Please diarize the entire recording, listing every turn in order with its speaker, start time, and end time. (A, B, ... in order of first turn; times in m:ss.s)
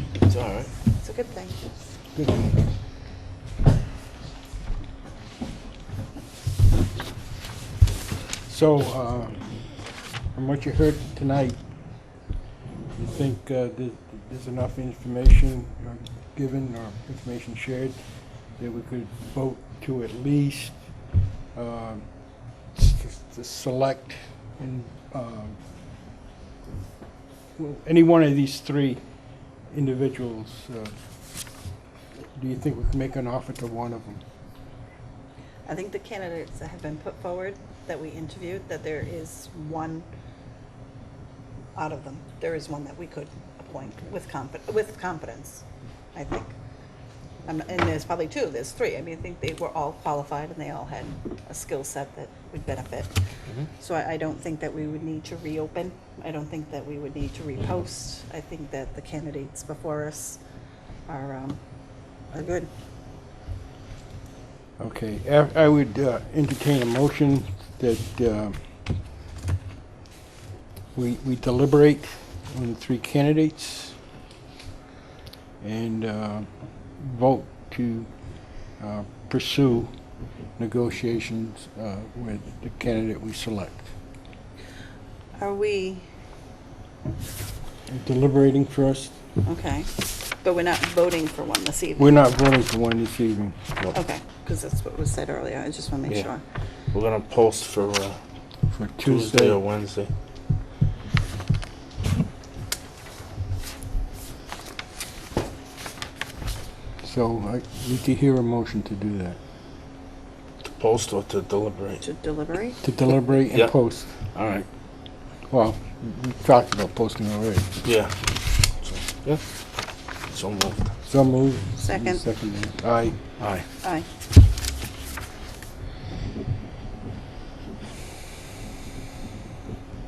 0:00.2-0:00.7 A
0:00.8-0:01.6 B
0:02.1-0:02.6 C
0:08.4-0:09.4 C
0:10.3-0:11.6 C
0:13.0-0:20.8 C
0:21.5-0:22.0 C
0:22.7-0:25.6 C
0:27.6-0:29.0 C
0:29.7-0:30.9 C
0:32.2-0:34.2 C
0:35.6-0:40.0 B
0:41.8-0:46.5 B
0:47.4-0:53.2 B
0:53.7-1:00.4 B
1:01.1-1:01.6 B
1:02.3-1:02.7 B
1:04.8-1:08.6 C
1:10.9-1:14.0 C
1:15.6-1:18.1 C
1:18.7-1:19.9 C
1:20.6-1:23.9 C
1:25.4-1:26.1 B
1:27.9-1:29.1 C
1:29.4-1:32.2 B
1:32.0-1:33.6 C
1:33.9-1:36.4 B
1:36.9-1:38.2 A
1:38.7-1:39.6 C
1:39.0-1:40.1 A
1:47.0-1:49.4 C
1:50.6-1:52.0 A
1:52.0-1:52.8 B
1:52.8-1:54.2 C
1:54.3-1:54.7 A
1:55.5-1:57.7 C
1:57.8-1:58.1 A
1:58.8-1:59.4 A
2:00.3-2:00.9 A
2:01.0-2:03.2 C
2:01.8-2:02.2 B
2:03.4-2:03.6 A